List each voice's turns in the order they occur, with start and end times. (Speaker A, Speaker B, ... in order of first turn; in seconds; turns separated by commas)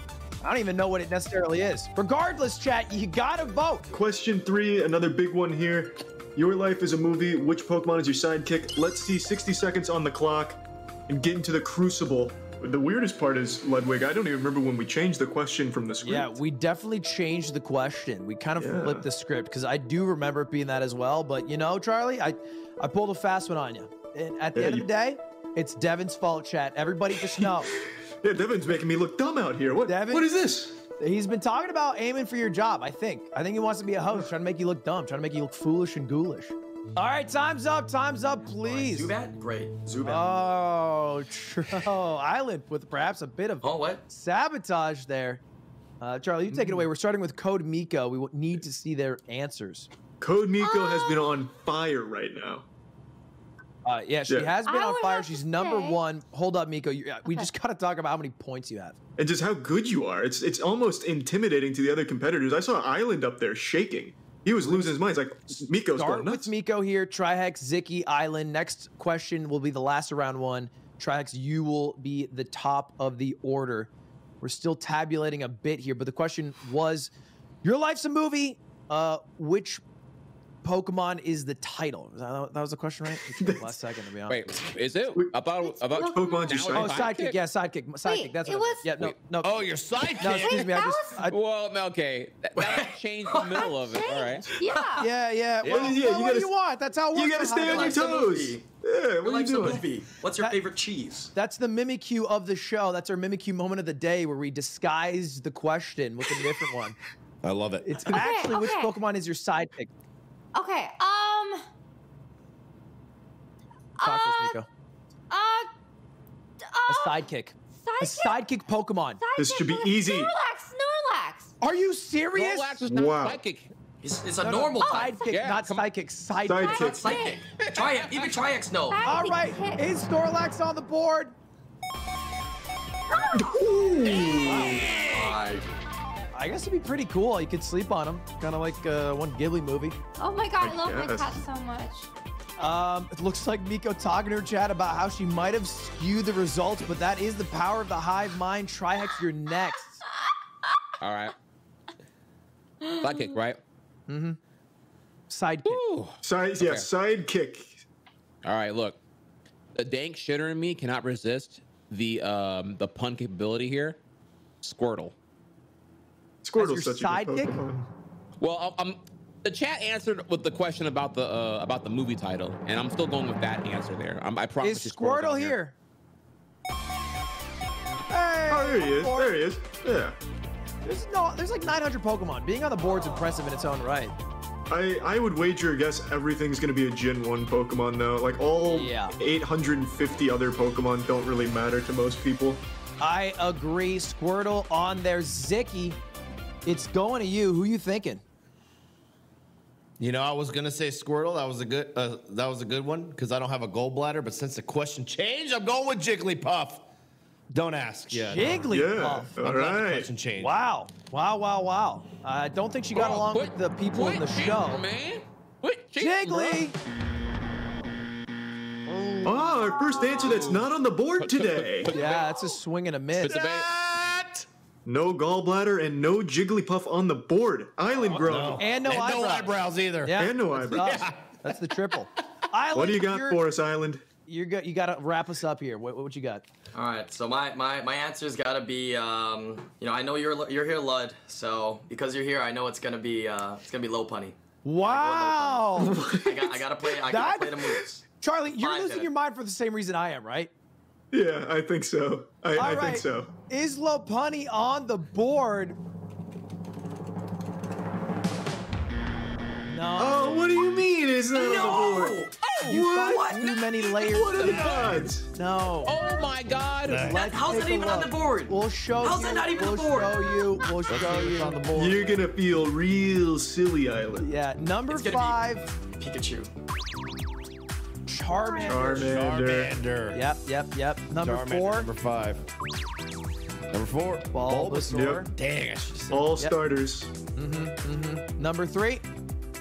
Speaker A: 0.4-3.9, Speaker B: 3.9-16.4, Speaker A: 16.0-27.7, Speaker B: 18.6-19.1, Speaker B: 24.6-24.9, Speaker B: 27.4-30.8, Speaker A: 29.9-30.3, Speaker A: 31.0-39.1, Speaker C: 38.6-40.3, Speaker A: 40.0-45.4, Speaker C: 43.6-44.0, Speaker A: 46.0-49.9, Speaker B: 46.5-46.9, Speaker B: 50.2-52.7, Speaker D: 50.6-51.3, Speaker A: 53.9-59.0, Speaker B: 54.3-54.6, Speaker D: 54.6-56.0, Speaker B: 59.2-66.5, Speaker A: 64.6-65.0, Speaker A: 65.9-73.9, Speaker A: 74.4-77.1, Speaker A: 77.6-79.8, Speaker A: 80.6-84.6, Speaker B: 83.4-83.8, Speaker E: 84.3-87.4, Speaker B: 85.1-87.1, Speaker D: 85.7-86.7, Speaker A: 86.7-89.6, Speaker D: 88.0-88.9, Speaker F: 89.4-90.7, Speaker A: 90.2-91.4, Speaker D: 90.2-91.3, Speaker E: 91.3-94.6, Speaker C: 92.6-93.7, Speaker D: 93.6-95.1, Speaker C: 94.5-95.1, Speaker A: 95.0-98.1, Speaker F: 95.6-95.9, Speaker B: 95.6-96.5, Speaker B: 97.1-99.9, Speaker C: 97.6-98.7, Speaker C: 99.2-101.3, Speaker A: 101.3-107.0, Speaker F: 107.4-108.4, Speaker A: 107.8-109.9, Speaker D: 108.1-109.0, Speaker D: 110.5-111.7, Speaker D: 114.0-114.6, Speaker A: 114.0-114.7, Speaker D: 115.3-115.7, Speaker D: 116.7-117.3, Speaker A: 116.9-119.2, Speaker D: 117.8-118.4, Speaker D: 119.2-121.5, Speaker B: 119.4-120.3, Speaker A: 121.6-122.8, Speaker E: 122.3-123.7, Speaker B: 122.9-123.4, Speaker C: 124.0-125.1, Speaker A: 124.4-126.9, Speaker D: 124.8-125.4, Speaker E: 125.3-125.9, Speaker B: 126.5-127.2, Speaker D: 126.5-127.4, Speaker C: 126.7-129.0, Speaker E: 127.6-128.2, Speaker D: 128.9-129.9, Speaker A: 129.1-131.4, Speaker D: 133.1-134.6, Speaker B: 133.3-134.8, Speaker F: 134.2-135.4, Speaker C: 134.2-135.7, Speaker A: 134.4-134.9, Speaker A: 136.3-140.0, Speaker D: 140.2-142.1, Speaker B: 140.6-141.4, Speaker A: 142.6-150.0, Speaker E: 151.0-151.3, Speaker E: 152.9-153.6, Speaker A: 154.1-154.4, Speaker A: 155.3-155.8, Speaker E: 155.7-156.9, Speaker B: 156.2-157.8, Speaker E: 158.4-159.0, Speaker E: 159.8-164.0, Speaker E: 164.6-165.1, Speaker B: 166.4-167.9, Speaker A: 166.6-167.6, Speaker E: 168.4-175.6, Speaker A: 174.6-175.7, Speaker A: 178.1-179.4, Speaker B: 178.5-180.2, Speaker A: 180.8-184.2, Speaker B: 184.7-192.6, Speaker A: 188.7-189.2, Speaker A: 193.0-196.0, Speaker A: 196.7-198.2, Speaker F: 200.0-206.9, Speaker F: 207.5-208.6, Speaker A: 208.1-209.8, Speaker B: 208.7-210.1, Speaker F: 209.5-210.5, Speaker A: 210.4-214.8, Speaker E: 212.9-216.7, Speaker A: 216.0-216.8, Speaker F: 218.9-219.4, Speaker B: 219.2-221.9, Speaker E: 221.2-222.5, Speaker A: 221.9-223.4, Speaker E: 223.2-223.7, Speaker F: 223.2-224.5, Speaker B: 224.8-228.7, Speaker F: 228.1-231.3, Speaker A: 228.6-233.4, Speaker B: 230.2-231.1, Speaker B: 232.7-234.1, Speaker A: 234.3-236.4, Speaker C: 236.7-248.0, Speaker A: 244.7-246.0, Speaker B: 245.8-246.7, Speaker A: 247.1-250.5, Speaker C: 248.6-249.1, Speaker B: 251.1-253.3, Speaker A: 252.6-255.8, Speaker A: 259.7-260.5, Speaker B: 260.0-263.4, Speaker C: 261.3-263.4, Speaker A: 262.6-266.0, Speaker B: 263.9-265.3, Speaker E: 264.4-265.0, Speaker E: 265.8-267.1, Speaker F: 266.9-267.2, Speaker A: 267.0-271.6, Speaker C: 267.1-270.4, Speaker F: 270.9-272.0, Speaker B: 271.7-274.3, Speaker A: 274.2-275.7, Speaker C: 274.9-276.5, Speaker A: 278.1-279.1, Speaker D: 278.4-278.7, Speaker B: 278.6-279.8, Speaker F: 278.7-280.2, Speaker A: 280.1-281.9, Speaker F: 281.2-282.4, Speaker F: 283.7-286.2, Speaker A: 284.3-285.3, Speaker B: 284.9-285.2, Speaker B: 286.1-287.1, Speaker A: 287.4-289.1